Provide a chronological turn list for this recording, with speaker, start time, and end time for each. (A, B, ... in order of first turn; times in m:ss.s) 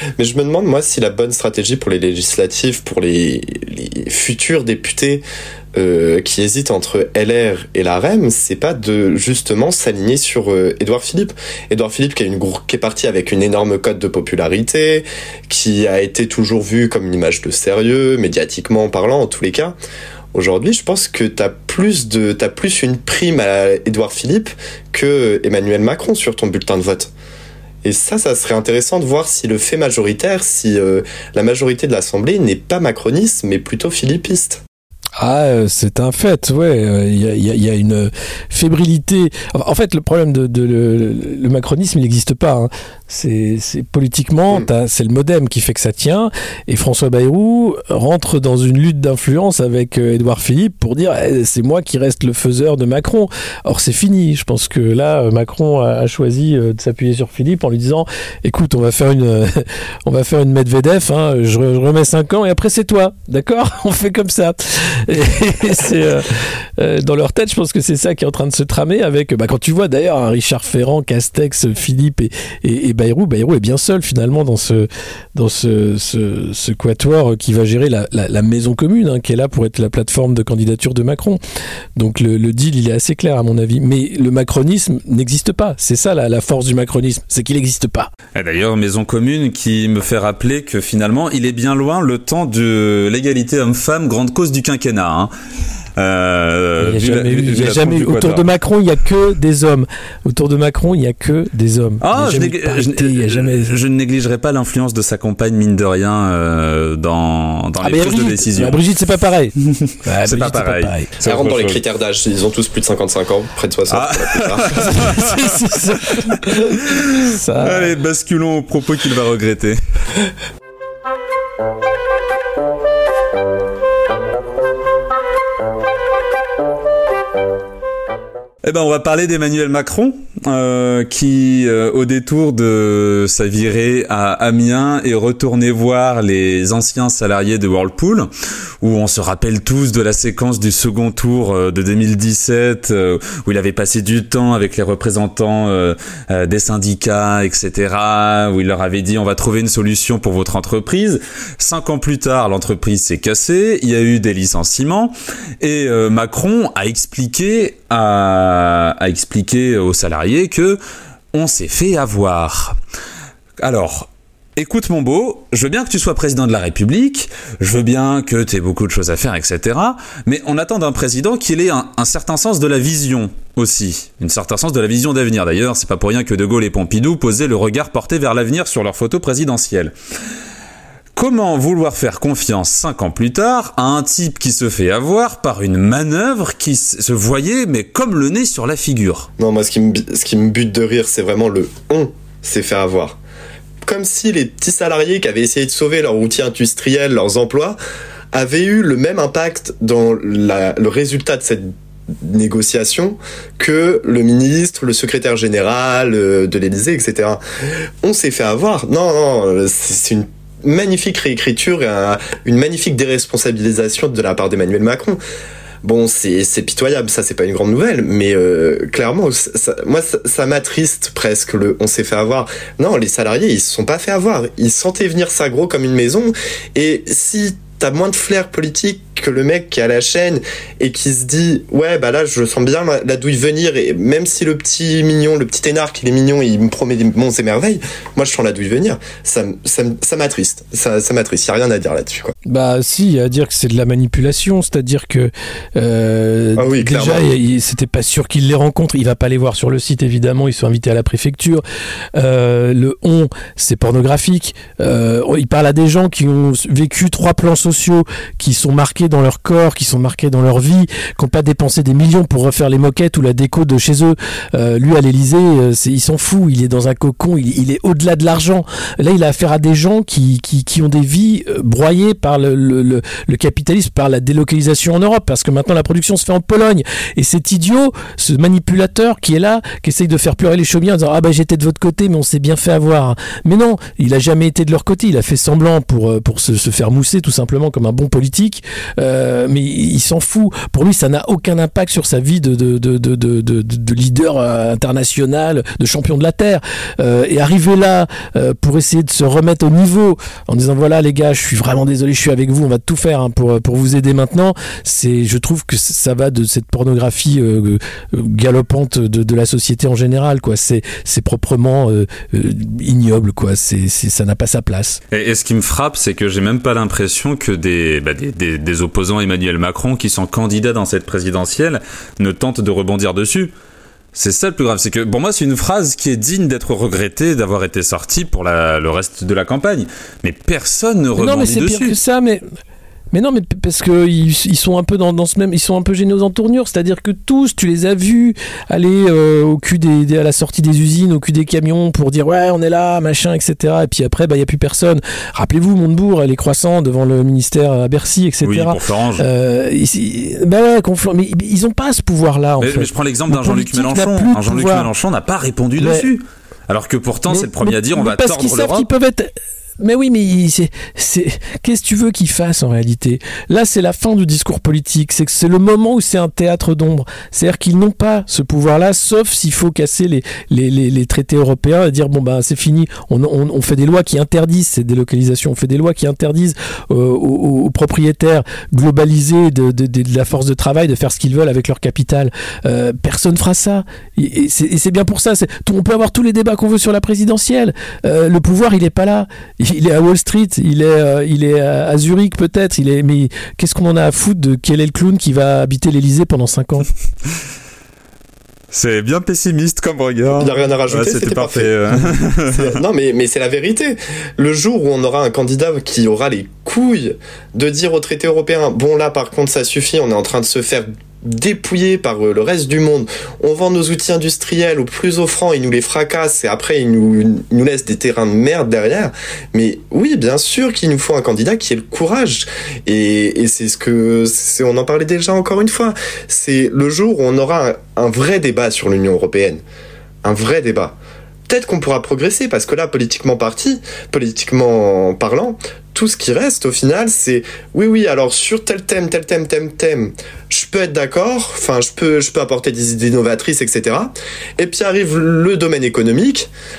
0:00.2-0:05.2 A
0:05.8-0:19.7 A
0:20.3-0:27.1 A
0:27.8-0:34.6 A
0:35.2-1:21.4 B
1:22.0-1:28.1 B
1:28.3-1:35.3 C
1:36.0-1:38.5 C
1:36.8-1:43.7 B
1:42.0-1:48.8 C
1:47.8-1:51.1 B
1:49.7-1:51.8 C
1:51.2-1:54.9 A
1:53.9-1:56.2 C
1:54.9-1:57.9 B
1:56.8-1:59.8 C
2:08.6-2:18.3 C
2:18.8-2:40.8 C
2:41.3-2:42.8 C
2:43.6-2:59.9 C
3:01.1-3:09.3 C
3:09.4-3:13.2 A
3:13.8-3:17.8 A
3:18.3-3:27.4 A
3:28.0-3:35.2 A
3:35.8-4:02.3 A
4:02.4-4:11.6 B
4:06.6-4:07.2 A
4:12.1-5:15.0 B
5:15.1-5:23.5 C
5:24.1-5:32.0 C
5:31.2-5:32.4 B
5:33.1-5:54.9 B
5:48.4-5:49.2 C
5:52.6-5:58.9 C
5:55.8-5:56.1 B
5:57.3-6:36.9 B
6:38.7-6:42.7 C
6:40.3-6:41.7 A
6:42.5-7:09.6 A
7:10.2-7:11.0 A
7:11.5-7:26.5 A